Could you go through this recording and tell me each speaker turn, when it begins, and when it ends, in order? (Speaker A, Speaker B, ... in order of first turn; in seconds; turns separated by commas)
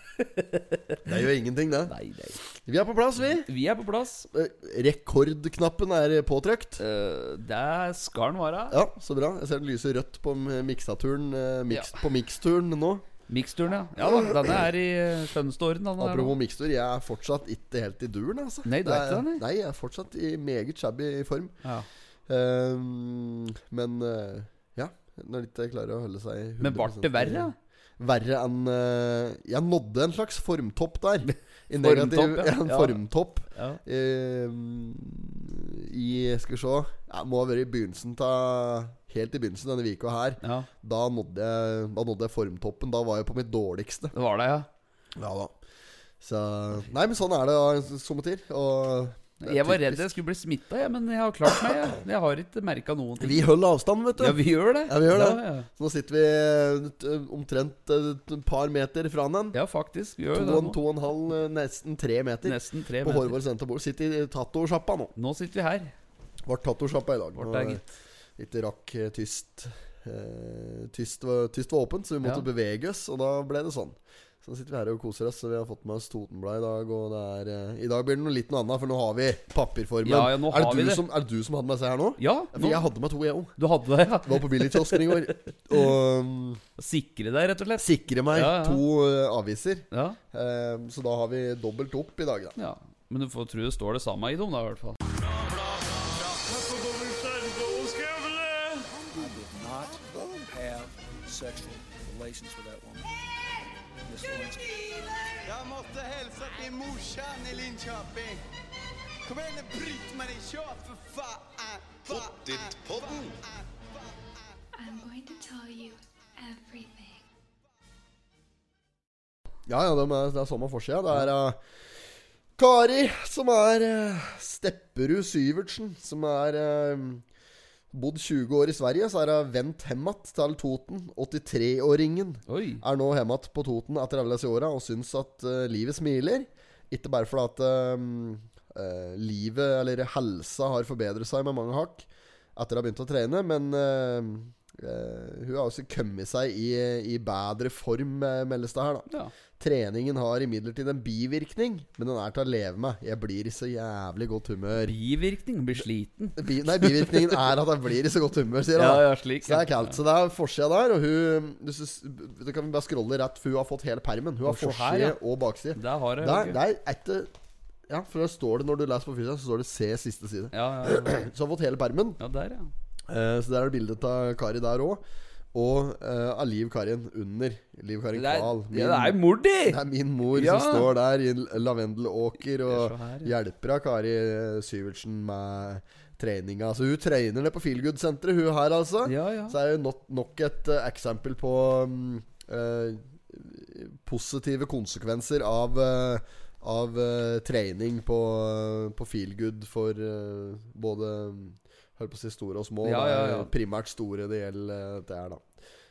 Speaker A: 0.2-1.1, Speaker B: 1.0-1.9, Speaker A: 1.9-2.4, Speaker B: 2.6-3.5, Speaker A: 3.2-4.3, Speaker B: 4.3-6.8, Speaker A: 6.8-8.8, Speaker B: 8.7-13.0, Speaker A: 11.7-12.0, Speaker A: 13.3-16.4, Speaker B: 14.0-14.6, Speaker B: 16.0-21.5, Speaker A: 18.6-19.4, Speaker B: 22.3-44.1, Speaker A: 26.6-27.5, Speaker A: 31.2-33.0, Speaker A: 33.5-33.8, Speaker A: 40.4-40.7, Speaker A: 44.1-44.7, Speaker B: 45.1-45.5, Speaker B: 46.2-50.1, Speaker A: 49.4-53.5, Speaker B: 53.2-59.6, Speaker A: 54.2-55.7, Speaker A: 59.5-60.8, Speaker B: 60.3-65.1, Speaker A: 62.4-63.4, Speaker A: 65.2-65.9, Speaker B: 66.5-67.8, Speaker A: 67.4-67.8, Speaker B: 68.4-83.5, Speaker A: 80.0-81.0, Speaker A: 82.2-82.8, Speaker A: 83.6-85.9, Speaker B: 84.2-86.6, Speaker A: 86.8-88.8, Speaker B: 87.8-92.5, Speaker A: 89.9-90.2, Speaker A: 92.6-95.0, Speaker C: 95.0-103.1, Speaker B: 99.9-100.5, Speaker C: 104.0-105.4, Speaker D: 105.4-108.4, Speaker D: 109.2-114.4, Speaker C: 112.1-113.3, Speaker E: 114.8-117.2, Speaker B: 119.7-121.6, Speaker B: 122.6-127.2, Speaker B: 127.9-149.1, Speaker A: 132.5-132.8, Speaker B: 149.6-154.9, Speaker A: 154.8-157.4, Speaker B: 156.3-167.3, Speaker A: 158.8-159.9, Speaker A: 164.4-165.2, Speaker A: 165.7-166.6, Speaker B: 167.9-172.2, Speaker A: 170.5-171.2, Speaker A: 172.2-172.7, Speaker B: 173.1-175.0, Speaker B: 175.5-205.4, Speaker A: 178.1-179.8, Speaker A: 180.3-180.9, Speaker A: 182.6-183.3, Speaker A: 189.1-189.6, Speaker A: 202.8-203.5